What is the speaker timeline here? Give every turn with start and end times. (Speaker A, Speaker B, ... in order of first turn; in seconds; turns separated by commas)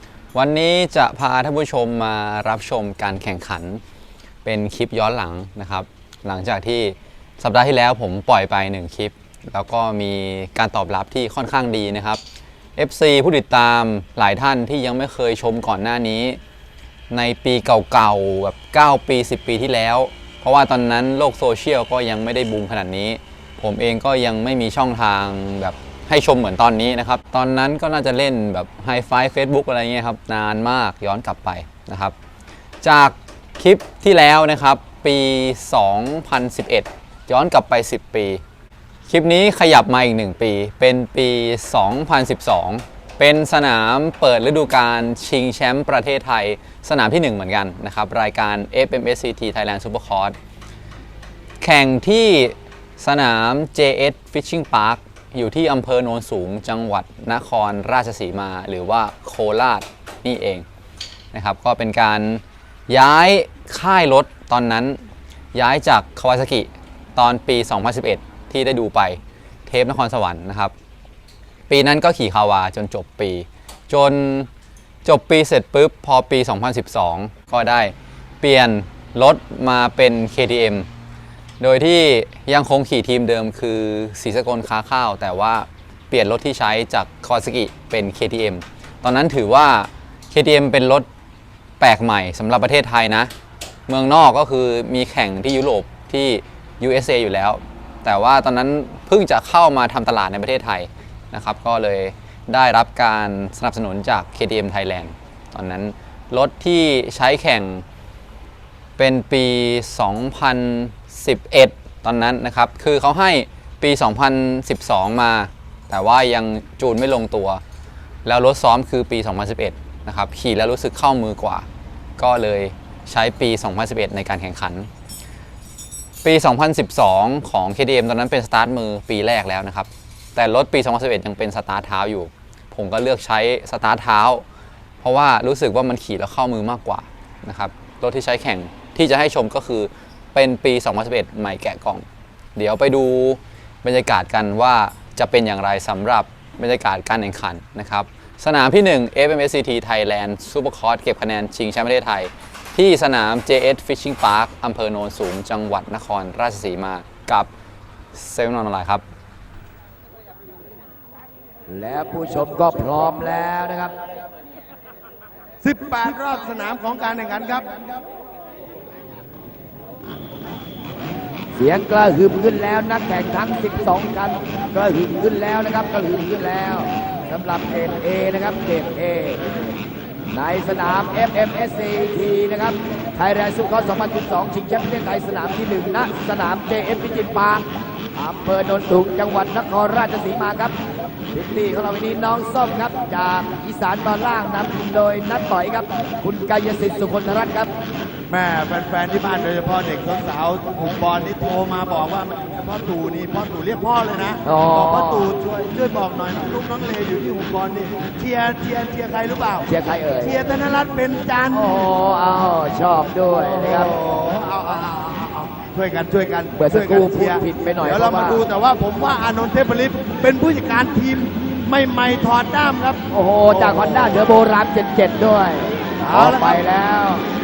Speaker A: 0.3-3.8, Speaker A: 4.4-12.2, Speaker A: 12.8-16.4, Speaker A: 17.1-32.1, Speaker A: 32.8-38.4, Speaker A: 39.1-50.3, Speaker A: 51.6-60.6, Speaker A: 61.3-65.0, Speaker A: 65.5-70.7, Speaker A: 71.7-74.5, Speaker A: 75.0-80.8, Speaker A: 81.6-91.1, Speaker A: 91.8-93.3, Speaker A: 93.9-107.8, Speaker A: 109.0-117.6, Speaker A: 118.2-121.7, Speaker A: 122.2-124.9, Speaker A: 126.2-134.4, Speaker A: 135.0-142.0, Speaker A: 142.6-157.5, Speaker A: 158.1-159.0, Speaker B: 161.7-163.9, Speaker C: 165.6-167.7, Speaker B: 171.5-179.4, Speaker B: 180.3-187.6, Speaker B: 188.2-190.7, Speaker B: 191.3-197.7, Speaker C: 198.3-209.7, Speaker B: 204.4-205.3, Speaker B: 209.6-210.4, Speaker C: 210.2-211.9, Speaker B: 211.5-213.9, Speaker C: 213.3-224.3, Speaker B: 216.5-218.4, Speaker B: 223.1-227.3, Speaker C: 226.0-226.6